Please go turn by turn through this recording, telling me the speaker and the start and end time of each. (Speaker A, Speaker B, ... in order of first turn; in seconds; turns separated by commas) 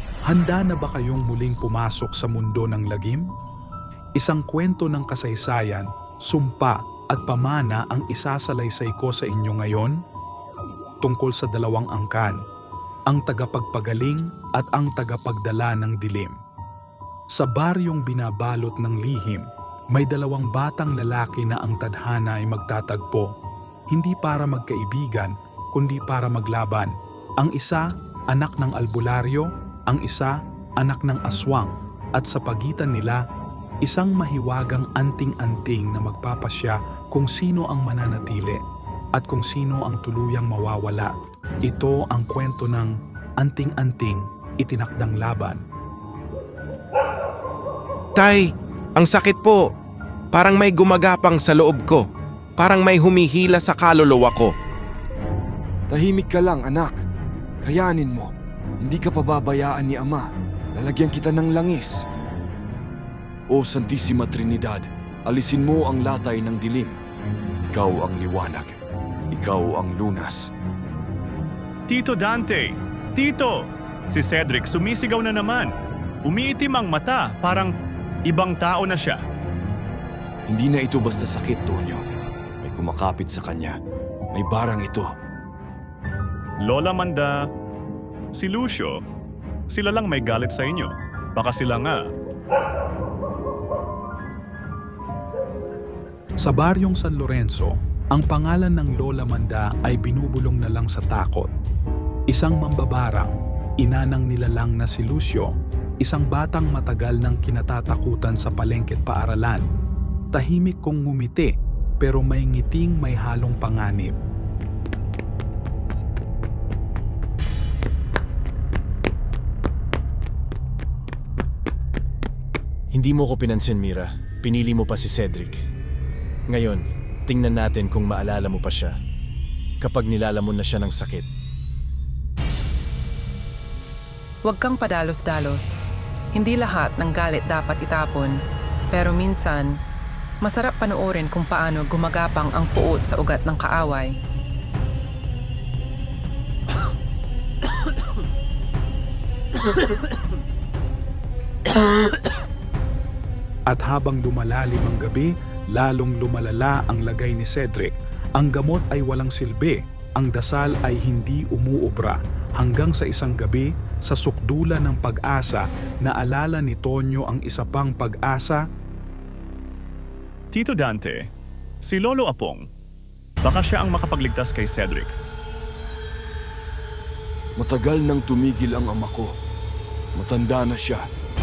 Speaker A: 0.3-3.3, Speaker A: 4.2-10.0, Speaker A: 11.0-12.4, Speaker A: 13.1-16.4, Speaker A: 17.3-23.3, Speaker A: 23.9-33.2, Speaker A: 33.8-38.6, Speaker A: 39.1-41.1, Speaker A: 41.7-45.6, Speaker B: 48.1-49.7, Speaker B: 50.3-52.0, Speaker B: 52.6-54.5, Speaker C: 55.9-57.0, Speaker C: 57.6-62.0, Speaker C: 63.5-67.0, Speaker C: 67.6-68.8, Speaker C: 69.3-70.5, Speaker D: 71.9-75.7, Speaker D: 76.3-77.7, Speaker D: 78.3-79.2, Speaker C: 80.5-82.0, Speaker C: 82.6-83.7, Speaker C: 84.3-85.1, Speaker D: 86.6-87.3, Speaker D: 88.3-89.0, Speaker D: 89.7-92.0, Speaker A: 96.4-101.5, Speaker A: 102.3-105.5, Speaker A: 106.0-109.6, Speaker A: 110.3-114.2, Speaker E: 122.9-125.6, Speaker E: 126.5-128.9, Speaker E: 129.8-131.3, Speaker F: 134.4-135.8, Speaker F: 136.3-138.4, Speaker F: 138.9-139.8, Speaker F: 140.4-144.1, Speaker A: 153.7-168.6, Speaker D: 170.5-171.2, Speaker D: 171.8-172.6, Speaker D: 173.4-175.1, Speaker C: 177.6-179.3, Speaker C: 180.2-181.0